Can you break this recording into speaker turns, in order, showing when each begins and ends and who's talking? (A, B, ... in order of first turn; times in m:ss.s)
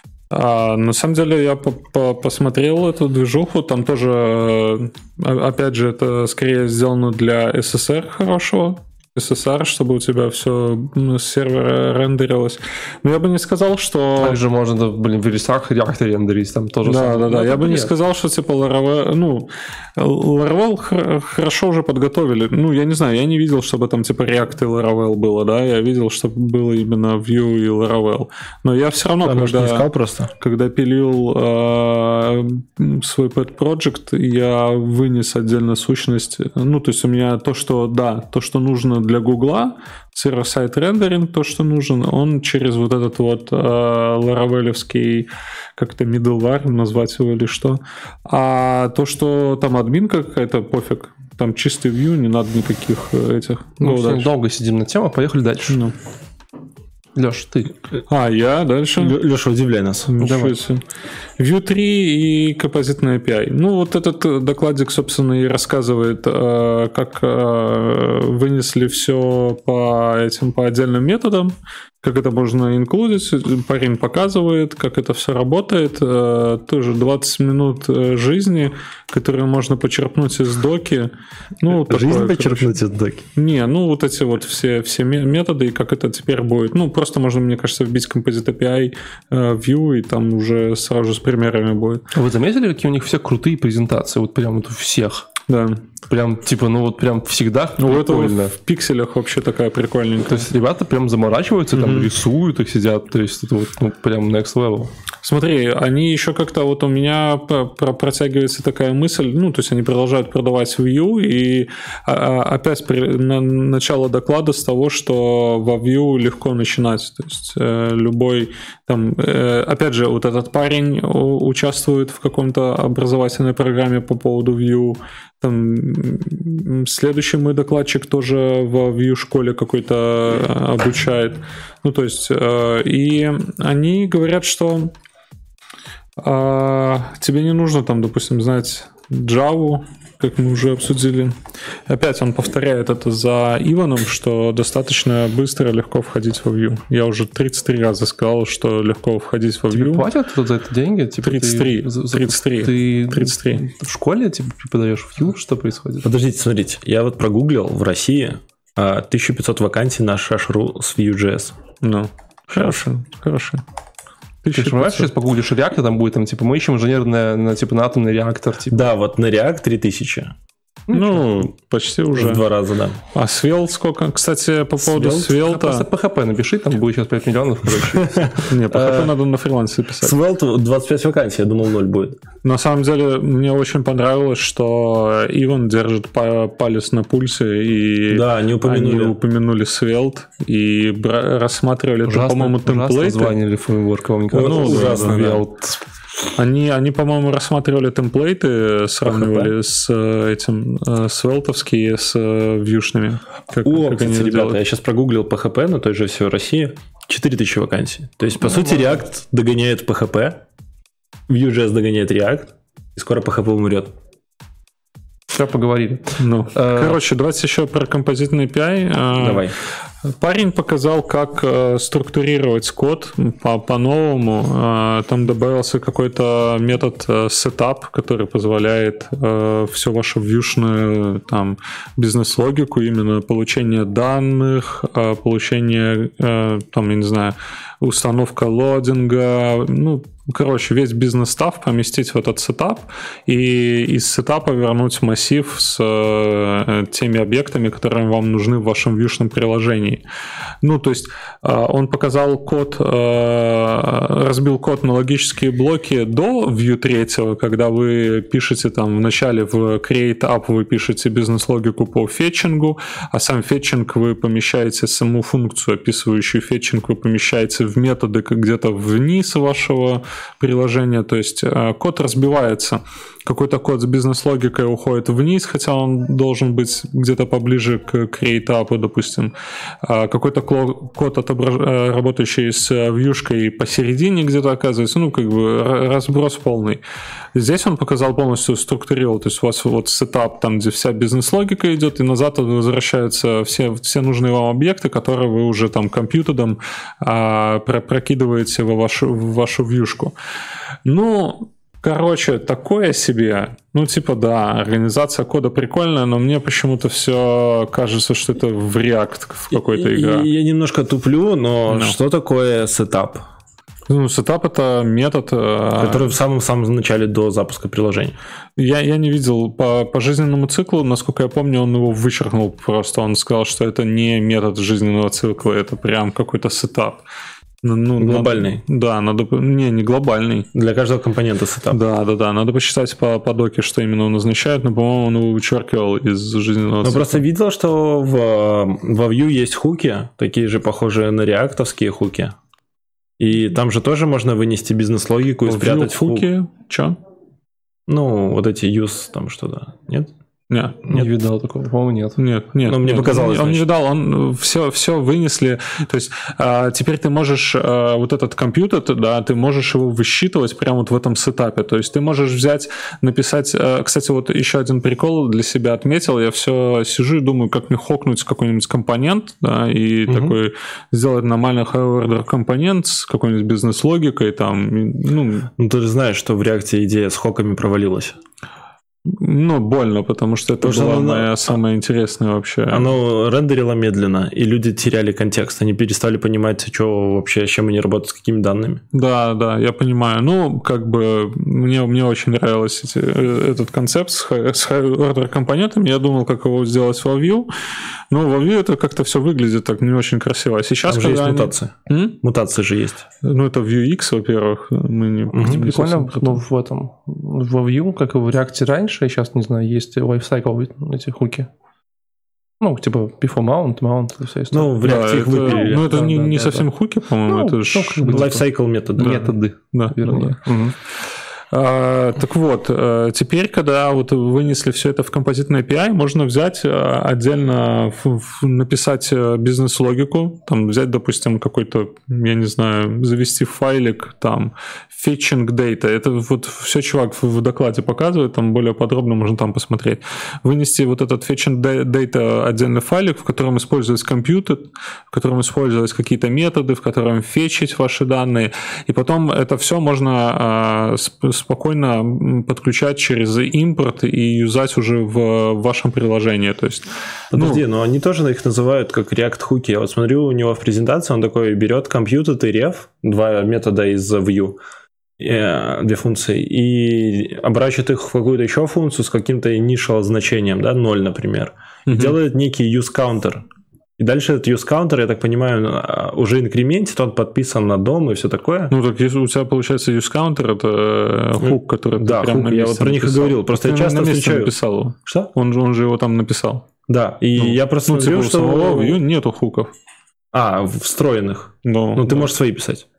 0:00.3-0:14.4 A
0:14.2-0:17.9 B
0:16.8-0:29.9 A
0:29.2-0:30.3 C
0:30.4-0:54.3 A
0:53.8-0:55.8 B
0:57.2-0:57.7 B
0:58.1-0:59.2 A
0:59.0-1:00.1 C
1:00.1-1:00.8 A
1:00.2-1:00.6 B
1:01.4-1:22.7 A
1:21.7-1:23.2 C
1:23.4-1:32.0 A
1:32.1-1:35.3 B
1:35.5-1:35.8 A
1:36.1-1:38.5 B
1:37.8-1:40.5 A
1:40.3-1:44.9 B
1:41.7-1:42.1 A
1:45.2-2:14.9 A
2:16.2-2:21.3 A
2:21.9-2:30.0 A
2:29.7-2:36.1 B
2:31.2-2:33.6 A
2:36.0-2:41.6 C
2:41.8-2:43.6 A
2:42.5-2:42.8 C
2:44.4-2:45.1 A
2:44.5-2:48.9 B
2:48.7-2:50.3 C
2:50.9-2:51.4 B
2:50.9-2:52.4 A
2:52.1-2:53.0 C
2:53.1-2:55.8 A
2:54.8-2:55.3 C
2:55.3-2:59.1 B
2:57.9-2:58.3 C
2:58.5-3:00.2 A
3:00.0-3:02.2 C
3:02.4-3:13.4 A
3:08.1-3:09.1 C
3:12.0-3:15.8 B
3:14.3-3:15.4 C
3:14.4-3:15.4 A
3:16.3-3:24.6 A
3:19.1-3:19.5 B
3:23.6-3:30.4 C
3:31.3-3:33.9 C
3:35.3-3:37.0 B
3:36.2-3:39.5 A
3:39.1-3:39.5 C
3:40.1-4:10.0 A
4:10.6-4:46.8 A
4:47.3-5:00.1 A
5:00.8-5:10.3 A
5:09.5-5:13.2 C
5:11.7-5:12.0 A
5:13.9-5:16.1 A
5:15.8-5:18.2 C
5:18.6-5:27.0 A
5:27.6-5:30.5 A
5:28.0-5:28.6 C
5:30.5-5:31.8 C
5:31.7-5:37.2 A
5:36.8-5:42.3 C
5:43.2-5:46.3 C
5:45.4-5:47.0 A
5:47.9-5:50.1 C
5:50.5-5:51.0 A
5:50.9-5:52.2 B
5:52.2-6:15.5 A
5:52.6-5:53.6 C
6:10.1-6:10.4 C
6:15.6-6:18.2 C
6:19.0-6:22.9 A
6:20.6-6:21.3 C
6:22.7-6:28.8 C
6:28.9-6:37.5 A
6:38.1-6:42.2 A
6:40.8-6:43.0 C
6:43.2-6:46.4 A
6:45.3-6:45.6 C
6:45.4-6:51.5 B
6:52.6-6:56.7 B
6:54.5-6:55.8 C
6:54.8-6:58.3 A
6:57.2-6:58.4 B
6:58.0-6:59.3 C
6:59.0-7:00.7 B
6:59.0-7:00.4 A
7:01.5-7:37.6 A
7:37.3-7:44.6 C
7:45.2-7:53.4 C
7:51.9-7:52.2 A
7:54.0-7:58.7 C
7:58.7-8:06.7 A
8:01.4-8:04.5 C
8:06.9-8:09.0 C
8:07.4-8:09.7 A
8:10.3-8:12.8 C
8:11.6-8:12.3 A